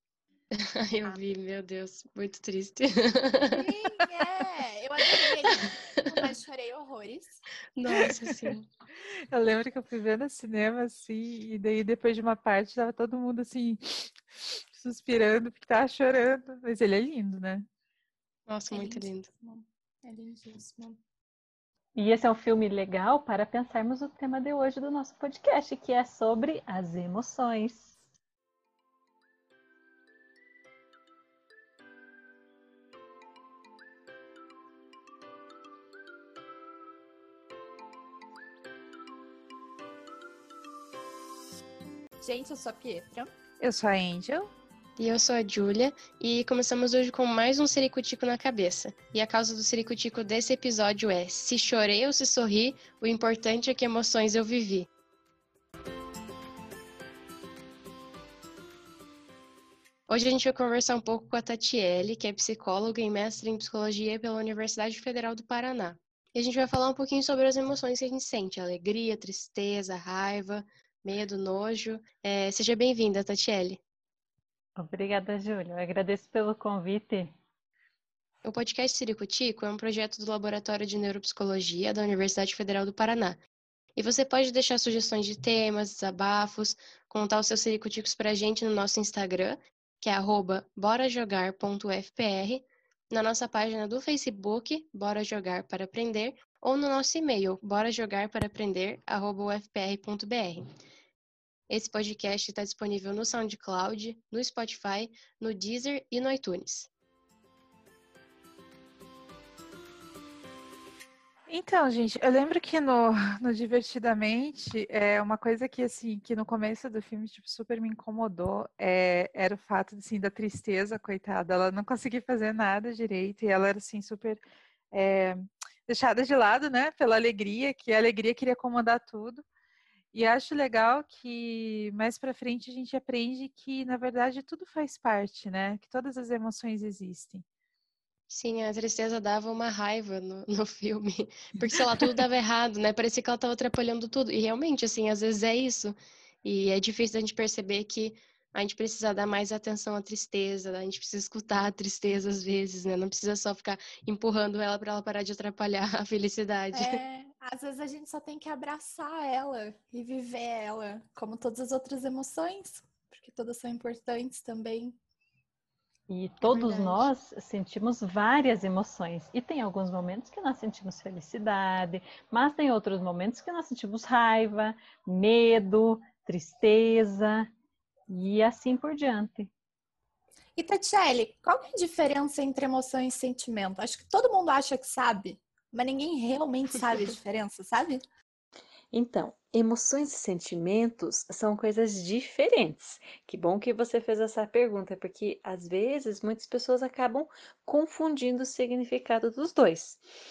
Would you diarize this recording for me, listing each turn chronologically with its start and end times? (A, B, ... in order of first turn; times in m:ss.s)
0:00.5-0:03.7 A
0:03.5-0:07.4 B
0:07.8-0:08.7 A
0:09.3-0:17.7 C
0:18.5-0:19.3 A
0:18.7-0:21.0 B
0:22.0-0:27.9 D
0:42.2-0:43.3 B
0:43.6-0:44.5 C
0:45.0-0:54.9 A
1:00.1-1:13.8 A
1:14.8-1:17.3 D
1:18.4-1:23.4 A
1:24.0-1:40.7 A
1:41.7-1:46.9 A
1:51.5-2:04.4 C
2:04.9-2:09.4 C
2:10.1-2:17.4 C
2:18.3-2:37.0 A
2:36.7-2:45.0 B
2:46.1-2:57.5 D
2:46.4-2:47.1 B
2:58.1-2:59.5 D
3:00.6-3:08.0 B
3:08.9-3:20.0 E